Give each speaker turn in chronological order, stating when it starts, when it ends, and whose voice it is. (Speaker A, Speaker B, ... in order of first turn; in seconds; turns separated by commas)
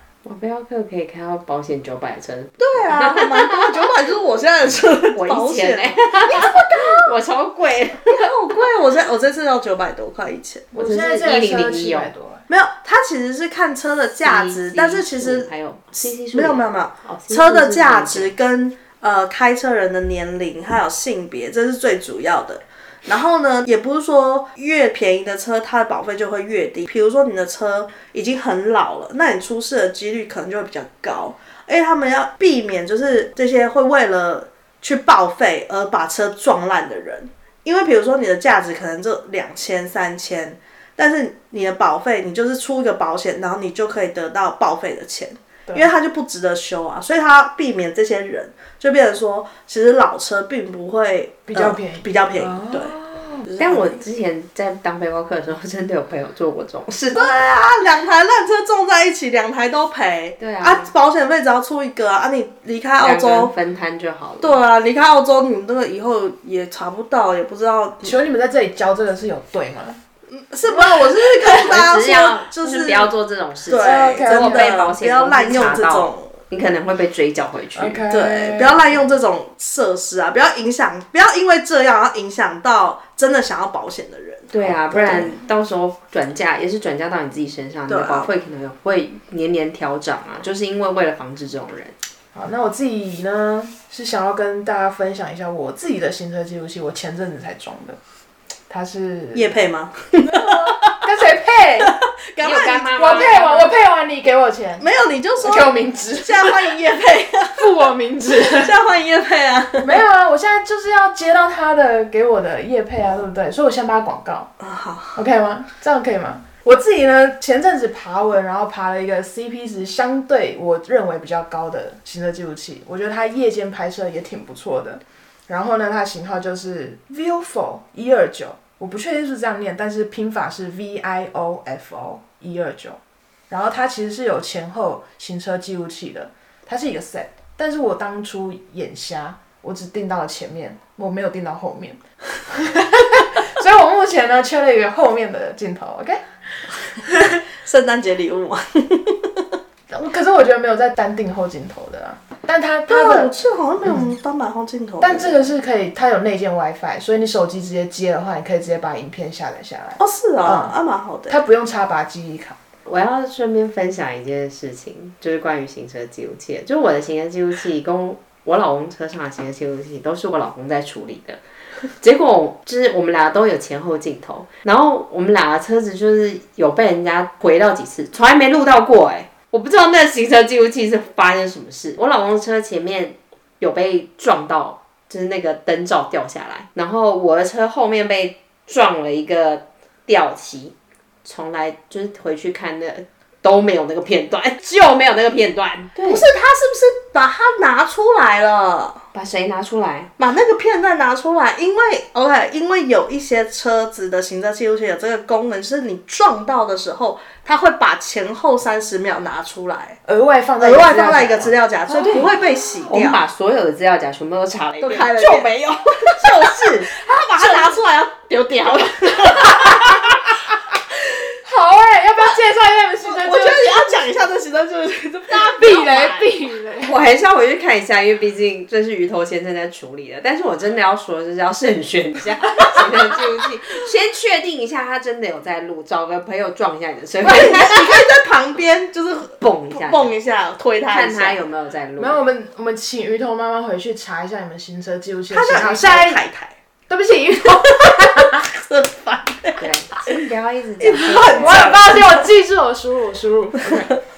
Speaker A: 0.2-3.9, Speaker B: 2.6-7.1, Speaker A: 5.1-8.3, Speaker B: 8.1-10.7, Speaker C: 10.7-12.4, Speaker A: 10.7-12.1, Speaker B: 12.5-54.0, Speaker A: 14.2-18.3, Speaker C: 51.5-53.5, Speaker A: 53.6-57.3, Speaker B: 57.1-63.5, Speaker A: 60.4-60.9, Speaker A: 63.0-64.6, Speaker B: 64.4-68.1, Speaker C: 68.0-70.0, Speaker B: 70.3-73.1, Speaker A: 71.4-78.0, Speaker B: 73.7-76.3, Speaker C: 73.8-74.7, Speaker C: 77.8-79.0, Speaker B: 78.1-85.4, Speaker A: 84.5-91.9, Speaker C: 84.9-85.4, Speaker B: 87.9-88.3, Speaker C: 92.3-98.0, Speaker C: 98.7-99.6, Speaker B: 99.3-101.0, Speaker C: 100.2-102.0, Speaker B: 101.8-103.4, Speaker A: 102.4-103.7, Speaker C: 102.9-104.9, Speaker B: 104.8-107.7, Speaker C: 105.4-106.8, Speaker C: 107.6-108.7, Speaker B: 108.3-110.0, Speaker C: 109.8-114.5, Speaker B: 114.6-115.2, Speaker C: 115.2-146.2, Speaker C: 146.9-147.4, Speaker B: 147.0-149.5, Speaker C: 149.9-154.1, Speaker B: 152.9-155.5, Speaker C: 155.0-160.8, Speaker B: 160.0-161.4, Speaker C: 161.3-162.6, Speaker A: 162.9-171.4, Speaker A: 172.0-196.3, Speaker B: 196.0-199.0, Speaker A: 199.1-200.1, Speaker B: 200.2-210.0, Speaker C: 210.1-212.3, Speaker B: 210.6-213.2, Speaker A: 212.9-217.6, Speaker B: 214.8-220.3, Speaker C: 219.4-220.2, Speaker C: 221.4-224.0, Speaker B: 223.0-226.3, Speaker C: 225.3-226.9, Speaker A: 226.8-237.8, Speaker B: 237.2-241.4, Speaker A: 239.4-240.1, Speaker A: 240.9-242.2, Speaker C: 242.0-246.2, Speaker B: 245.3-246.6, Speaker C: 246.9-248.4, Speaker B: 247.5-250.1, Speaker A: 249.6-251.8, Speaker B: 250.8-252.2, Speaker C: 251.2-254.0